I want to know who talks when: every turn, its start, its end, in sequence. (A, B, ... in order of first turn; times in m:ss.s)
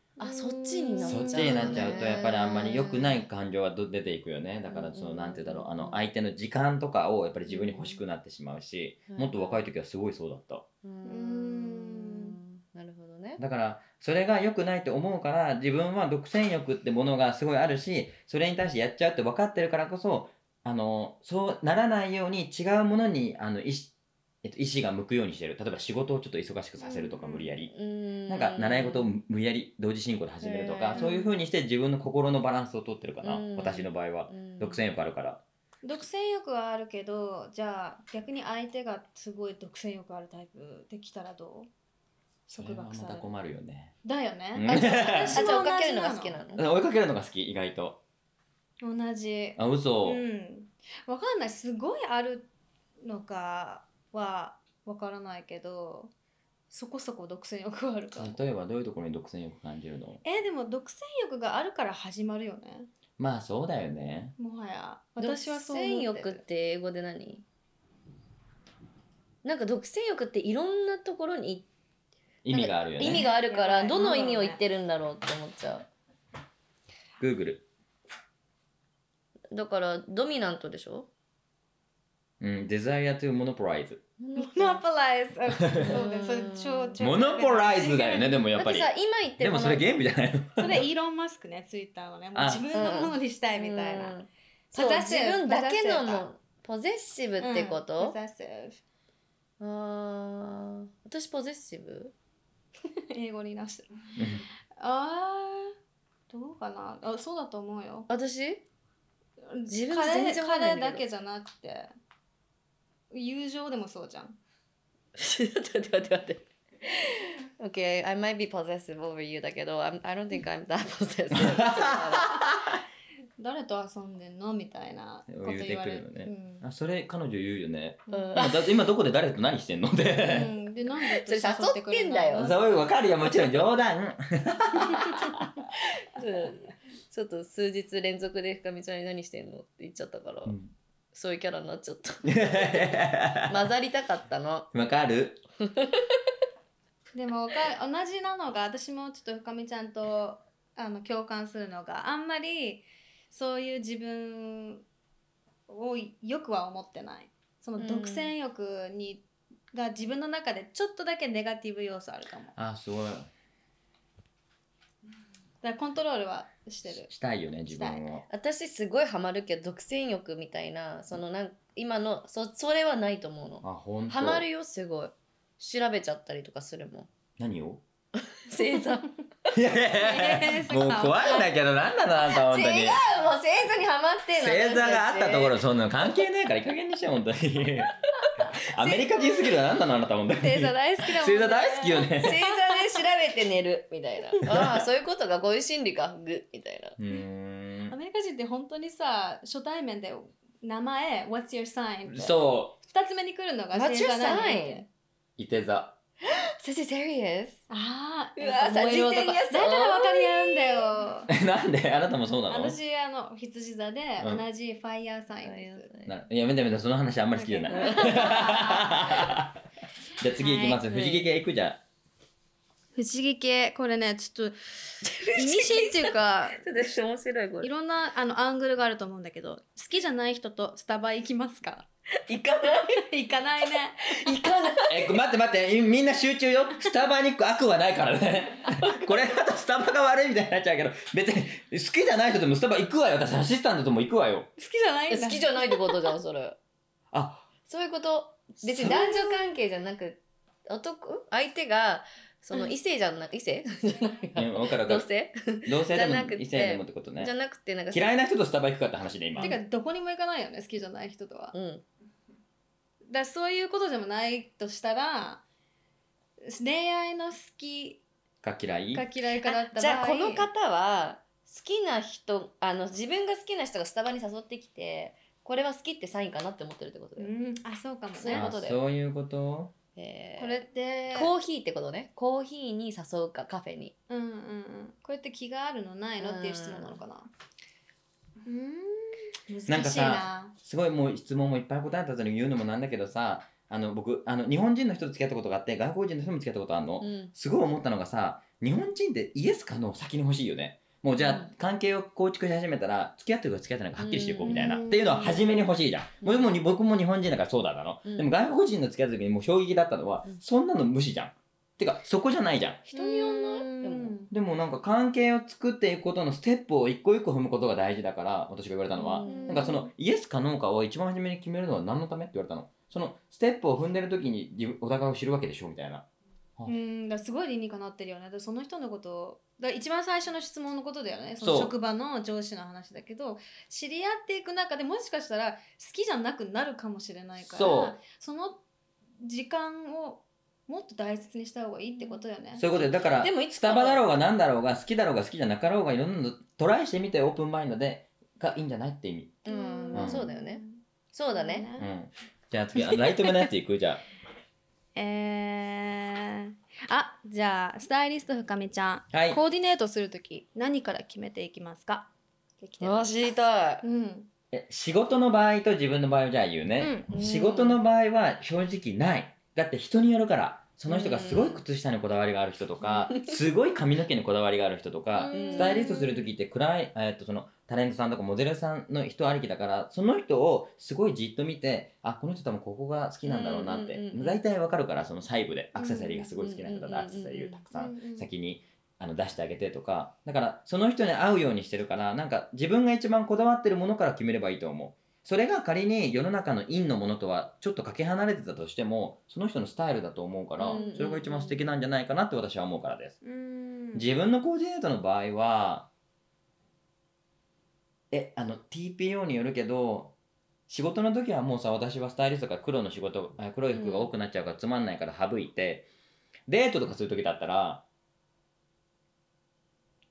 0:00.2-0:02.1 A
0:00.2-0:03.2 B
0:01.0-0:10.6 C
0:04.7-0:06.0 B
0:07.5-0:08.0 B
0:09.1-0:09.7 B
0:10.8-0:13.4 B
0:11.0-0:12.4 A
0:13.4-0:27.7 C
0:26.8-0:27.5 A
0:27.7-0:29.1 B
0:28.3-0:35.4 C
0:30.4-0:31.1 B
0:30.9-0:31.3 A
0:33.2-0:34.8 B
0:35.8-0:41.7 A
0:42.5-0:43.2 A
0:42.6-0:43.9 C
0:44.0-0:46.4 A
0:44.5-0:45.5 C
0:44.7-0:46.6 B
0:46.6-0:48.0 C
0:48.8-0:52.5 A
0:49.6-0:50.2 C
0:53.0-0:56.1 A
0:56.7-0:58.4 A
0:58.1-1:00.2 C
1:00.2-1:02.9 A
1:03.2-1:04.3 C
1:04.4-1:06.4 A
1:05.2-1:07.4 B
1:09.4-1:11.7 B
1:12.4-1:13.3 C
1:12.5-1:15.9 B
1:13.1-1:14.6 A
1:17.2-1:17.6 C
1:19.5-1:21.1 B
1:22.4-1:24.0 C
1:24.2-1:24.8 B
1:24.4-1:28.4 A
1:25.5-1:26.0 C
1:25.9-1:27.0 B
1:27.0-1:30.9 C
1:28.6-1:29.9 B
1:30.6-1:34.2 A
1:32.3-1:32.6 C
1:32.7-1:38.2 B
1:34.7-1:36.2 A
1:37.4-1:38.8 A
1:39.6-1:42.1 B
1:43.1-1:43.9 A
1:44.2-1:44.4 C
1:44.8-1:45.7 A
1:46.3-1:48.1 A
1:48.1-1:48.6 B
1:49.5-1:51.9 A
1:49.6-1:51.0 B
1:53.1-1:54.4 A
1:55.2-2:02.4 B
2:01.3-2:02.8 C
2:03.4-2:06.6 A
2:05.3-2:10.5 C
2:08.1-2:08.4 A
2:08.1-2:08.8 B
2:10.2-2:12.8 A
2:11.2-2:12.5 B
2:12.4-2:15.5 C
2:16.1-2:20.6 B
2:20.4-2:20.7 C
2:21.1-2:22.8 B
2:22.2-2:23.7 C
2:23.5-2:24.7 B
2:24.7-2:25.4 C
2:25.6-2:26.1 B
2:27.1-2:34.8 A
2:35.7-2:42.5 A
2:37.8-2:38.3 B
2:42.6-2:43.3 C
2:45.6-2:47.1 A
2:46.9-2:48.2 C
2:47.7-2:48.0 A
2:48.3-2:57.1 B
2:53.6-2:54.4 C
2:57.4-2:57.8 C
2:58.3-2:59.1 B
2:58.7-2:59.0 A
2:59.5-3:03.0 C
2:59.9-3:01.5 A
3:02.3-3:05.6 B
3:04.3-3:08.0 C
3:08.4-3:09.6 A
3:08.6-3:12.4 C
3:10.4-3:13.0 A
3:12.2-3:17.0 B
3:14.5-3:14.9 C
3:17.0-3:18.0 C
3:17.9-3:24.8 A
3:22.1-3:22.8 C
3:23.7-3:24.8 B
3:25.4-3:26.0 C
3:26.3-3:27.6 B
3:27.7-3:31.3 A
3:28.4-3:30.9 B
3:31.3-3:32.8 C
3:32.5-3:35.9 A
3:34.2-3:34.4 C
3:35.4-3:36.1 B
3:36.0-3:39.6 C
3:37.3-3:38.8 A
3:37.7-3:38.7 B
3:40.2-3:41.8 C
3:40.4-3:40.8 A
3:40.8-3:41.3 B
3:43.0-3:46.8 A
3:45.0-3:47.7 B
3:47.6-3:51.9 A
3:52.2-3:53.0 B
3:52.6-3:54.3 A
3:54.0-3:54.9 B
3:54.9-4:04.5 C
3:58.7-3:59.2 B
4:04.6-4:06.1 A
4:05.1-4:06.6 B
4:07.1-4:07.5 C
4:07.6-4:18.1 B
4:08.6-4:08.9 C
4:08.8-4:09.6 A
4:14.4-4:15.1 C
4:15.6-4:17.3 C
4:17.9-4:19.6 C
4:19.4-4:21.5 A
4:21.5-4:21.8 B
4:23.1-4:25.4 A
4:26.4-4:28.0 A
4:28.4-4:29.0 C
4:28.9-4:30.5 A
4:29.4-4:37.3 B
4:37.2-4:38.5 A
4:38.1-4:38.8 B
4:38.3-4:39.7 C
4:40.0-4:43.9 B
4:40.4-4:41.3 A
4:44.1-4:47.3 A
4:46.2-4:47.0 B
4:48.4-4:50.5 A
4:49.7-5:12.8 C
4:57.0-4:57.3 B
5:01.2-5:01.5 B
5:04.0-5:04.8 B
5:04.4-5:05.6 A
5:06.2-5:06.5 B
5:08.0-5:08.3 B
5:12.9-5:14.2 B
5:12.9-5:14.3 A
5:14.3-5:26.0 C
5:18.9-5:19.8 B
5:19.2-5:19.9 A
5:26.6-5:38.6 A
5:31.4-5:31.7 C
5:37.4-5:38.0 C
5:39.2-5:42.7 A
5:42.6-5:49.4 C
5:43.0-5:44.1 B
5:49.4-5:51.7 B
5:49.4-5:51.9 A
5:49.9-5:50.2 C
5:51.8-5:54.0 C
5:55.0-6:03.2 A
5:59.1-5:59.4 C
6:02.8-6:03.8 B
6:03.8-6:04.3 A
6:04.5-6:43.2 C
6:06.8-6:07.1 A
6:07.1-6:07.8 B
6:10.9-6:11.6 B
6:12.8-6:13.3 B
6:15.1-6:16.3 A
6:15.3-6:16.0 B
6:23.2-6:24.4 B
6:25.7-6:26.3 A
6:26.4-6:27.6 B
6:27.7-6:28.3 A
6:40.6-6:41.7 B
6:43.2-6:44.1 A
6:43.9-6:45.9 C
6:48.1-6:50.1 C
6:50.7-6:55.9 C
6:53.7-6:54.1 B
6:56.5-6:57.8 C